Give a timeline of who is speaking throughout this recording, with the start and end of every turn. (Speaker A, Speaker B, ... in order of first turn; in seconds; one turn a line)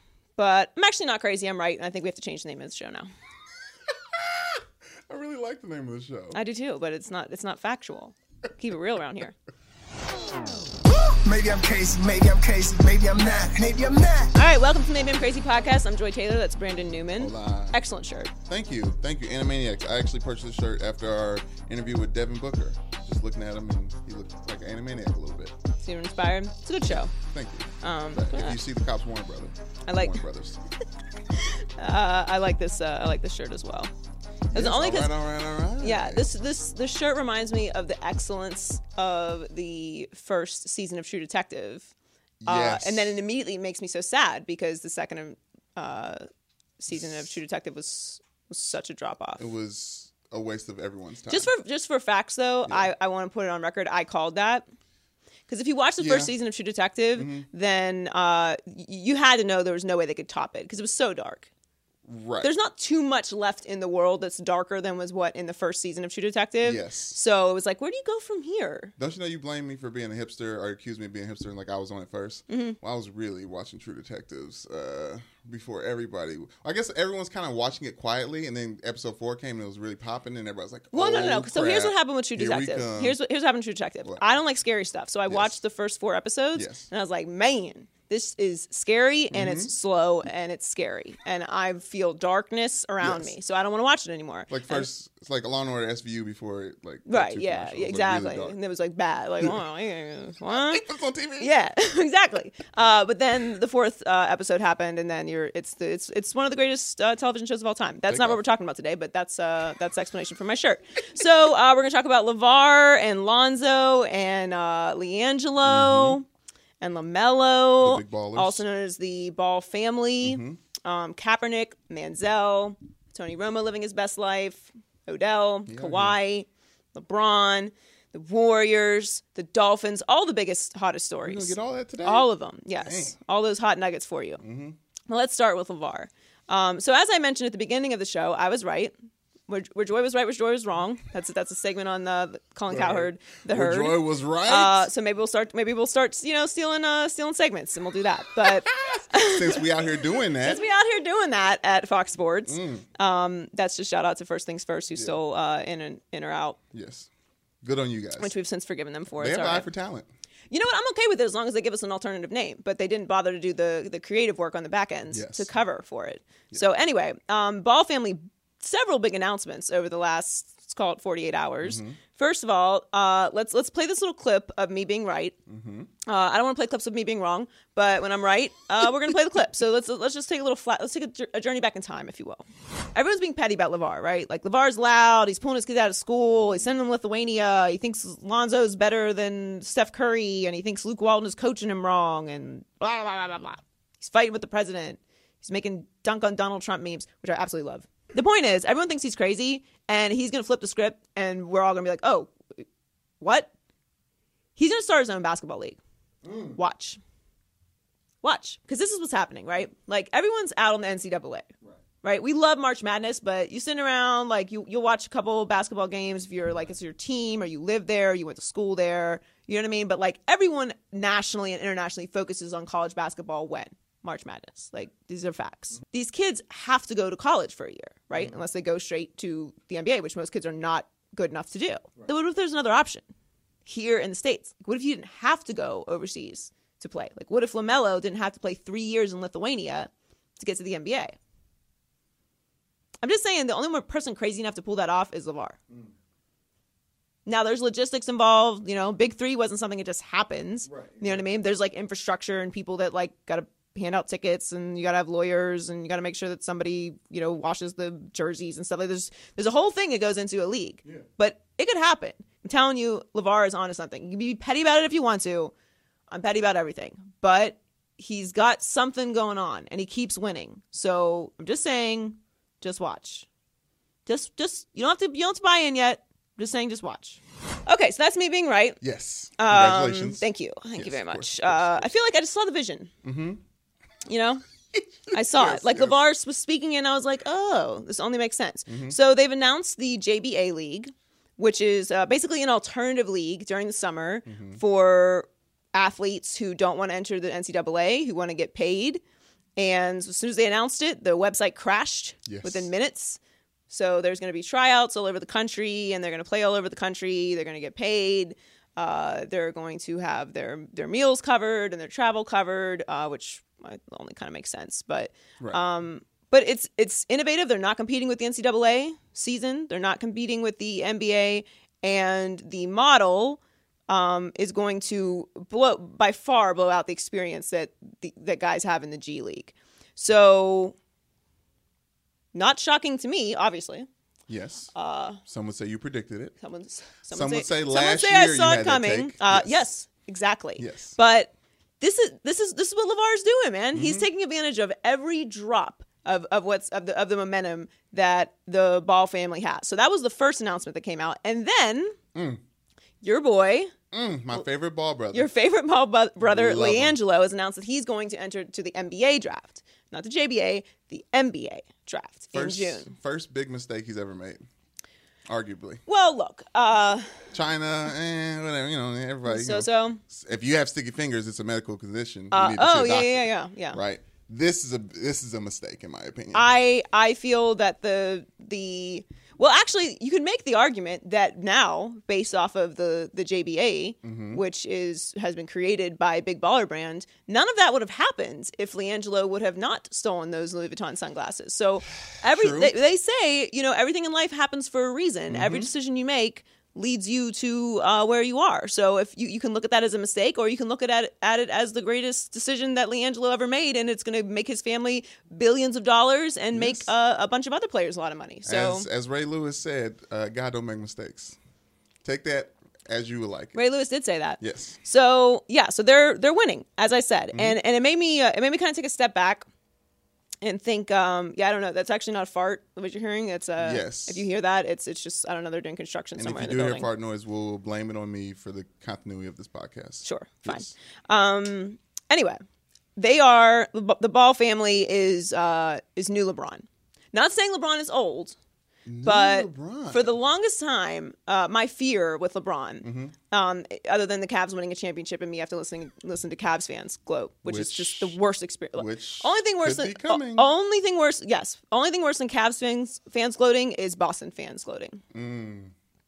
Speaker A: 0.3-3.1
Speaker B: 4.1-6.4
Speaker A: 6.3-9.3
Speaker C: 10.9-14.3
Speaker A: 14.3-18.3
Speaker B: 17.2-17.8
Speaker B: 18.4-25.5
Speaker A: 25.8-27.1
Speaker B: 27.3-30.6
Speaker A: 27.8-28.6
Speaker A: 29.9-30.2
Speaker A: 31.4-33.9
Speaker B: 34.5-36.2
Speaker A: 34.5-35.1
Speaker A: 35.8-41.9
Speaker B: 42.4-43.2
Speaker A: 42.4-46.2
Speaker A: 46.8-49.5
Speaker B: 49.4-51.5
Speaker A: 51.3-54.7
Speaker A: 55.5-61.5
Speaker B: 56.0-56.3
Speaker B: 57.2-57.5
Speaker B: 62.1-62.5
Speaker A: 62.4-68.9
Speaker B: 66.6-67.1
Speaker B: 69.0-83.2
Speaker A: 72.5-72.8
Speaker A: 80.9-94.9
Speaker B: 86.5-86.9
Speaker B: 89.3-89.7
Speaker B: 93.0-93.3
Speaker B: 94.5-98.5
Speaker A: 97.1-100.8
Speaker B: 100.5-101.5
Speaker A: 101.4-116.2
Speaker B: 108.1-108.4
Speaker B: 115.6-116.2
Speaker A: 116.8-134.4
Speaker B: 117.8-118.6
Speaker B: 120.2-120.6
Speaker B: 125.7-126.2
Speaker B: 131.2-132.3
Speaker B: 132.8-133.1
Speaker B: 134.4-134.8
Speaker A: 135.1-138.9
Speaker A: 139.5-149.6
Speaker B: 142.7-144.9
Speaker B: 148.4-150.6
Speaker A: 150.4-156.6
Speaker B: 152.5-152.8
Speaker B: 156.7-157.1
Speaker B: 157.6-158.3
Speaker A: 158.2-159.7
Speaker B: 159.2-160.1
Speaker A: 160.5-175.4
Speaker B: 165.1-165.5
Speaker B: 171.6-172.0
Speaker B: 175.5-175.9
Speaker A: 176.1-202.6
Speaker A: 203.2-203.5
Speaker A: 204.6-205.8
Speaker B: 206.2-206.6
Speaker A: 206.5-207.0
Speaker A: 208.2-211.5
Speaker A: 212.0-233.1
Speaker A: 233.7-241.2
Speaker A: 243.0-245.6
Speaker A: 247.2-265.5
Speaker B: 250.7-251.2
Speaker A: 266.1-273.3
Speaker A: 274.1-278.8
Speaker B: 278.8-281.9
Speaker A: 279.4-282.9
Speaker B: 283.0-283.4
Speaker A: 284.1-284.4
Speaker B: 284.7-286.0
Speaker A: 285.1-299.0
Speaker B: 288.7-288.9
Speaker B: 294.3-294.6
Speaker A: 299.6-330.8
Speaker B: 302.3-302.7
Speaker A: 332.3-333.9
Speaker B: 334.3-334.7
Speaker A: 334.7-335.2
Speaker B: 335.3-336.3
Speaker A: 336.4-352.0
Speaker B: 337.1-339.6
Speaker B: 340.6-340.9
Speaker B: 343.7-344.1
Speaker B: 352.1-352.4
Speaker A: 353.0-353.7
Speaker B: 353.9-355.3
Speaker A: 355.1-362.9
Speaker B: 356.2-357.0
Speaker B: 362.3-364.4
Speaker B: 365.3-365.8
Speaker A: 365.9-367.3
Speaker B: 367.3-376.4
Speaker A: 369.2-370.0
Speaker A: 372.3-373.8
Speaker A: 376.3-408.9
Speaker B: 384.0-384.4
Speaker B: 392.2-392.7
Speaker B: 395.3-395.7
Speaker B: 406.5-406.9
Speaker B: 408.4-411.4
Speaker B: 412.0-413.6
Speaker A: 413.5-419.4
Speaker B: 414.4-414.8
Speaker B: 417.3-417.6
Speaker A: 420.4-426.9
Speaker B: 423.6-424.2
Speaker B: 426.2-430.7
Speaker A: 430.0-432.4
Speaker A: 432.9-438.4
Speaker B: 438.9-440.1
Speaker A: 439.0-455.0
Speaker B: 442.8-443.1
Speaker B: 447.4-448.2
Speaker B: 448.7-450.5
Speaker B: 455.1-455.7